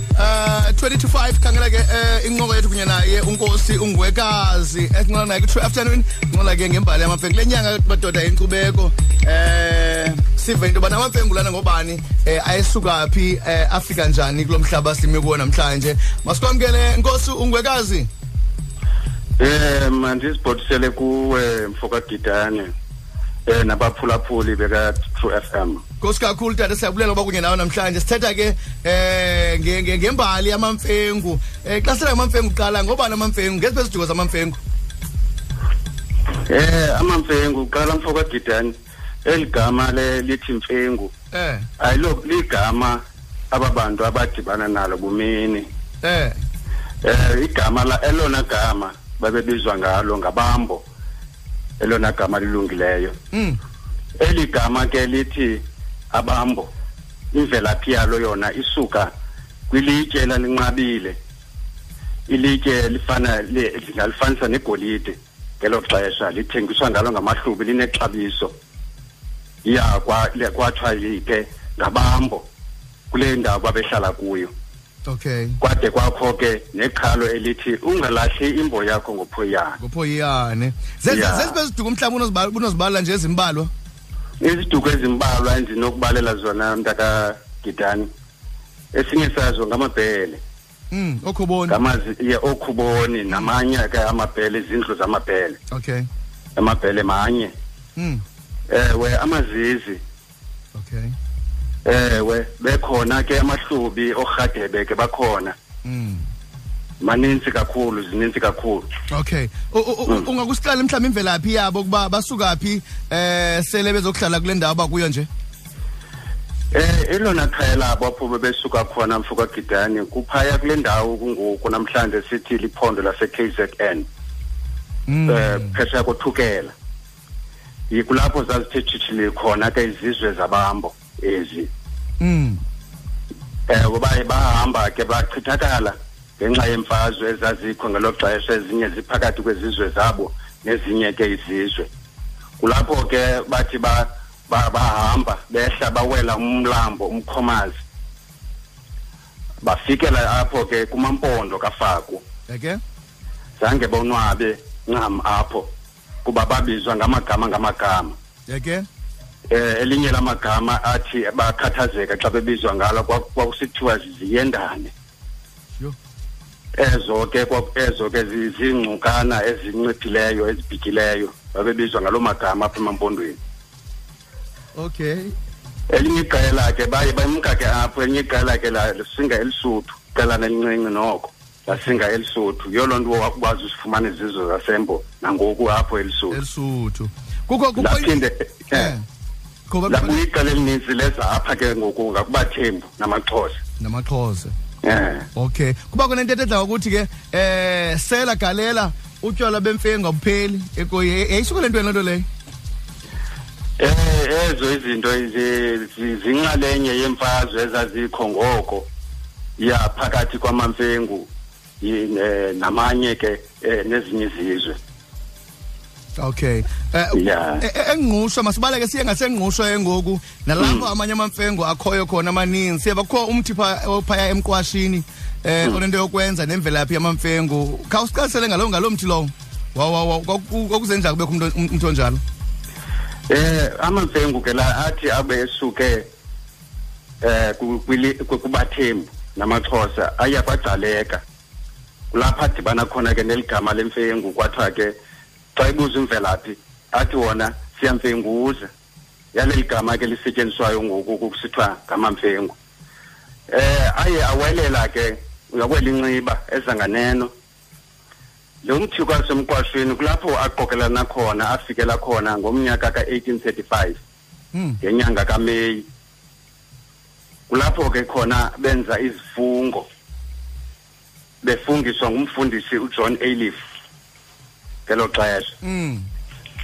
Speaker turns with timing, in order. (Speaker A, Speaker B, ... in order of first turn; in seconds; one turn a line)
Speaker A: 0.1-18.1
Speaker B: 19.4-22.7
Speaker B: 23.4-25.8
Speaker A: 26.0-34.6
Speaker B: 36.5-41.1
Speaker A: 41.3-41.6
Speaker B: 41.8-45.7
Speaker A: 46.0-46.4
Speaker B: 47.0-50.8
Speaker B: 51.8-53.1
Speaker A: 53.3-53.6
Speaker B: 54.2-56.7
Speaker B: 57.3-59.1
Speaker B: 59.7-61.2
Speaker B: 62.3-68.5
Speaker B: 69.6-72.5
Speaker B: 73.1-74.5
Speaker A: 75.0-75.6
Speaker B: 75.6-79.8
Speaker A: 79.8-83.7
Speaker B: 81.1-81.6
Speaker B: 84.4-88.1
Speaker B: 88.9-90.4
Speaker A: 90.9-91.8
Speaker B: 91.7-95.6
Speaker A: 95.7-96.1
Speaker B: 96.5-97.5
Speaker A: 98.0-98.2
Speaker B: 98.7-100.0
Speaker A: 100.7-101.1
Speaker B: 101.8-105.5
Speaker A: 105.8-106.2
Speaker B: 107.0-108.9
Speaker A: 109.1-115.3
Speaker B: 116.7-124.1
Speaker A: 125.1-125.7
Speaker B: 125.3-126.7
Speaker B: 127.9-131.7
Speaker A: 132.2-132.6
Speaker B: 133.7-141.9
Speaker B: 142.6-147.7
Speaker B: 149.6-152.2
Speaker A: 152.5-152.8
Speaker B: 153.6-155.7
Speaker B: 156.2-158.1
Speaker A: 158.5-158.9
Speaker B: 159.5-164.9
Speaker B: 166.7-173.4
Speaker A: 174.7-175.3
Speaker B: 175.9-186.4
Speaker A: 186.3-188.1
Speaker B: 187.8-188.9
Speaker A: 188.7-189.0
Speaker A: 189.7-190.2
Speaker B: 189.9-193.6
Speaker A: 193.8-194.5
Speaker B: 194.8-195.3
Speaker A: 195.3-202.2
Speaker B: 203.8-208.9
Speaker B: 209.6-211.3
Speaker B: 211.8-214.8
Speaker A: 216.2-232.2
Speaker B: 217.1-217.6
Speaker B: 220.6-220.9
Speaker B: 233.3-236.1
Speaker B: 237.2-241.2
Speaker B: 242.1-244.9
Speaker B: 245.5-248.7
Speaker B: 249.3-252.6
Speaker B: 253.5-257.3
Speaker B: 258.6-264.0
Speaker A: 264.5-264.8
Speaker B: 264.8-265.9
Speaker B: 267.5-269.9
Speaker B: 271.4-273.6
Speaker B: 274.9-275.6
Speaker A: 275.6-276.1